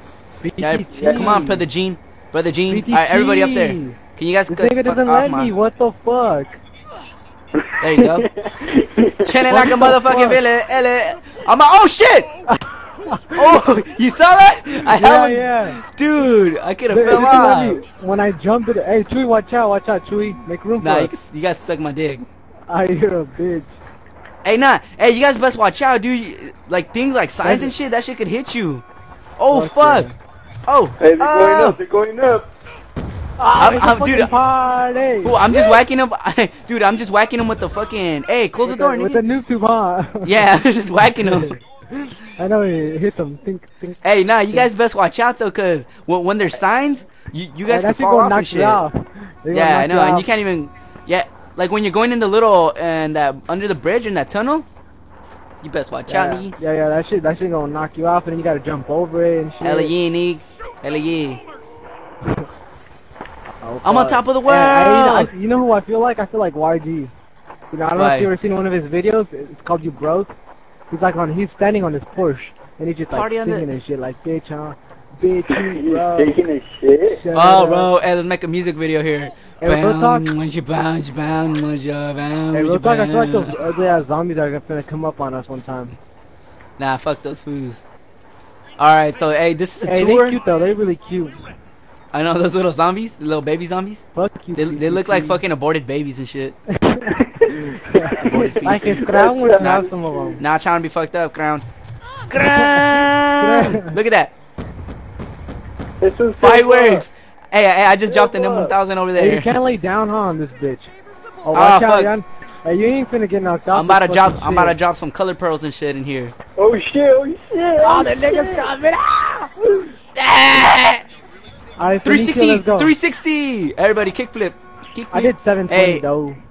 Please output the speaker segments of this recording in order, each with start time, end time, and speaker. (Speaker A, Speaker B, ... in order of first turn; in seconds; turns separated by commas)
Speaker A: 0.4-1.6, Speaker B: 0.6-5.5, Speaker C: 0.9-1.4, Speaker A: 2.7-4.0, Speaker A: 4.5-6.6, Speaker C: 7.5-9.4, Speaker B: 7.8-8.2, Speaker B: 9.2-12.3, Speaker A: 9.5-10.4, Speaker A: 12.5-13.6, Speaker B: 13.3-17.8, Speaker A: 14.8-15.8, Speaker A: 16.9-21.1, Speaker B: 20.8-22.2, Speaker A: 22.7-23.7, Speaker B: 24.4-28.8, Speaker A: 27.4-27.7, Speaker B: 29.4-30.1, Speaker A: 29.5-30.1, Speaker B: 30.7-31.8, Speaker C: 31.0-32.5, Speaker A: 33.4-35.4, Speaker B: 33.6-34.3, Speaker B: 35.2-39.2, Speaker C: 35.5-35.8, Speaker A: 38.6-40.4, Speaker B: 40.2-41.6, Speaker A: 41.1-44.0, Speaker B: 44.0-48.8, Speaker A: 47.7-50.2, Speaker B: 49.5-54.6, Speaker B: 55.6-56.5, Speaker A: 56.1-59.9, Speaker B: 59.6-61.4, Speaker A: 63.6-67.1, Speaker B: 63.8-65.3, Speaker A: 67.7-70.3, Speaker B: 67.9-68.3, Speaker A: 70.9-76.4, Speaker B: 73.1-73.7, Speaker C: 75.5-77.2, Speaker A: 77.1-77.9, Speaker B: 77.3-83.5, Speaker A: 79.6-80.3, Speaker A: 82.5-85.9, Speaker B: 86.8-87.8, Speaker B: 88.8-90.4, Speaker A: 89.8-91.4, Speaker B: 92.1-96.6, Speaker A: 94.1-95.4, Speaker A: 96.7-100.4, Speaker C: 97.4-100.4, Speaker B: 98.1-99.1, Speaker B: 100.4-101.6, Speaker B: 102.3-104.3, Speaker A: 102.4-103.9, Speaker C: 106.0-107.0, Speaker B: 106.4-109.5, Speaker C: 108.0-108.7, Speaker A: 109.1-110.9, Speaker A: 111.4-114.8, Speaker B: 111.5-112.1, Speaker B: 113.7-116.3, Speaker C: 116.6-118.7, Speaker A: 117.8-119.8, Speaker B: 120.1-121.0, Speaker A: 121.8-122.9, Speaker B: 122.0-126.0, Speaker A: 125.1-126.4